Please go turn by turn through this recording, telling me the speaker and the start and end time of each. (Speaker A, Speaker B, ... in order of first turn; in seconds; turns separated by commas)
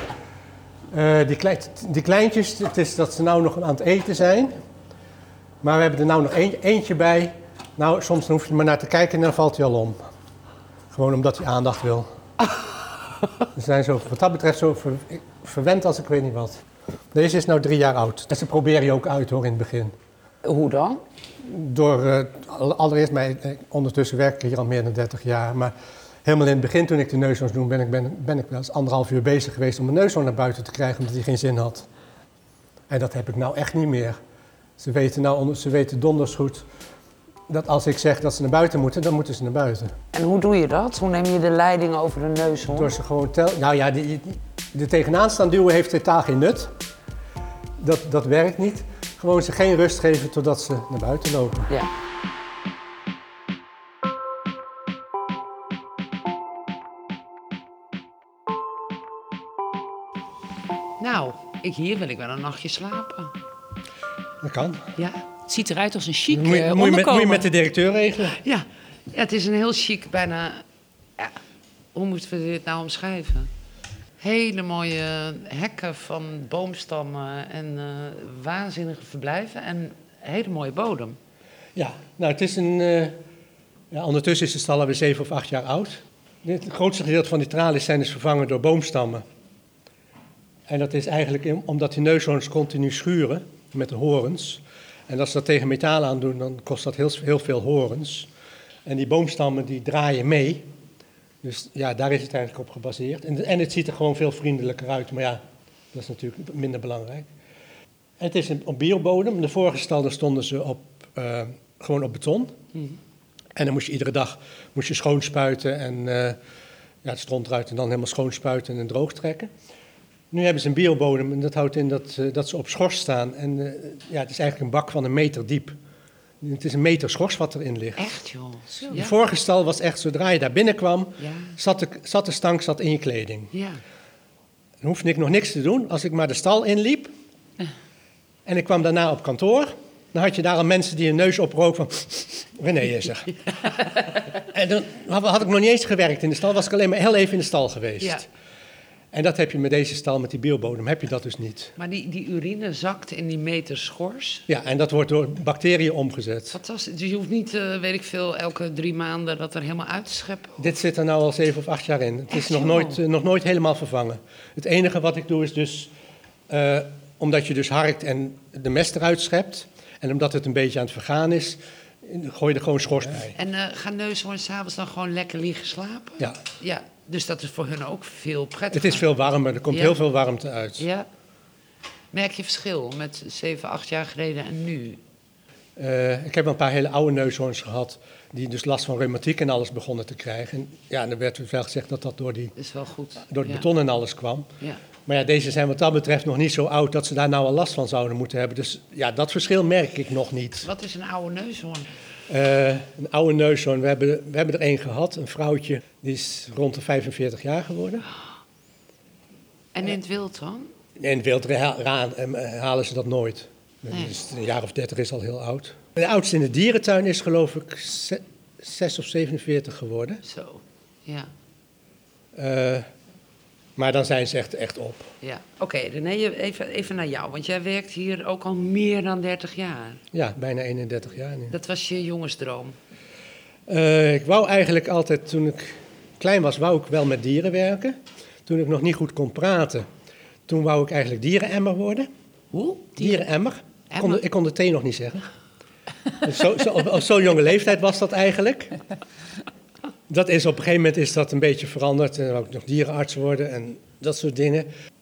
Speaker A: 0.9-4.5, Speaker A: 5.6-10.0, Speaker A: 10.9-12.1, Speaker A: 13.6-16.6, Speaker A: 17.1-19.9, Speaker B: 20.4-21.0, Speaker A: 21.4-25.7, Speaker A: 26.2-31.9, Speaker A: 32.9-34.2, Speaker A: 34.8-36.6, Speaker A: 37.5-39.9, Speaker B: 40.1-42.9, Speaker A: 42.7-46.7, Speaker A: 47.8-51.7, Speaker B: 61.0-63.3, Speaker A: 64.4-64.8, Speaker B: 65.0-65.2, Speaker C: 65.5-67.5, Speaker A: 66.3-68.4, Speaker B: 68.3-70.6, Speaker B: 71.9-73.5, Speaker B: 74.2-81.2, Speaker A: 81.8-83.1, Speaker A: 83.9-89.2, Speaker A: 90.7-98.3, Speaker A: 98.8-100.6, Speaker A: 101.4-105.4, Speaker A: 105.9-107.3, Speaker A: 108.2-112.5, Speaker A: 113.5-116.4, Speaker A: 117.0-119.5, Speaker A: 120.3-125.8, Speaker A: 126.4-128.1, Speaker B: 128.0-129.2, Speaker C: 128.8-129.0, Speaker A: 128.9-133.5, Speaker B: 131.2-131.5, Speaker B: 133.5-133.8, Speaker A: 134.8-137.1, Speaker A: 138.4-143.3, Speaker A: 144.4-148.3, Speaker A: 149.1-151.7, Speaker B: 151.8-154.4, Speaker A: 154.5-156.6, Speaker B: 156.5-160.7, Speaker A: 160.6-165.9, Speaker B: 162.3-163.0, Speaker A: 166.5-173.3, Speaker B: 173.3-179.1, Speaker A: 178.7-180.8, Speaker B: 179.7-180.0, Speaker B: 180.8-181.1, Speaker B: 182.1-185.0, Speaker A: 185.8-192.5, Speaker B: 192.6-193.7, Speaker A: 193.3-194.5, Speaker A: 195.1-200.7, Speaker B: 200.6-201.9, Speaker A: 202.3-208.0, Speaker B: 209.7-210.7, Speaker A: 211.0-220.2, Speaker B: 220.2-221.3, Speaker A: 222.3-222.9, Speaker A: 223.8-225.1, Speaker B: 225.2-230.0, Speaker A: 230.1-231.5, Speaker B: 231.5-232.8, Speaker A: 233.7-239.8, Speaker A: 240.5-242.1, Speaker C: 242.7-243.2, Speaker A: 242.9-245.3, Speaker B: 243.9-244.2, Speaker A: 246.2-248.8, Speaker A: 250.1-254.7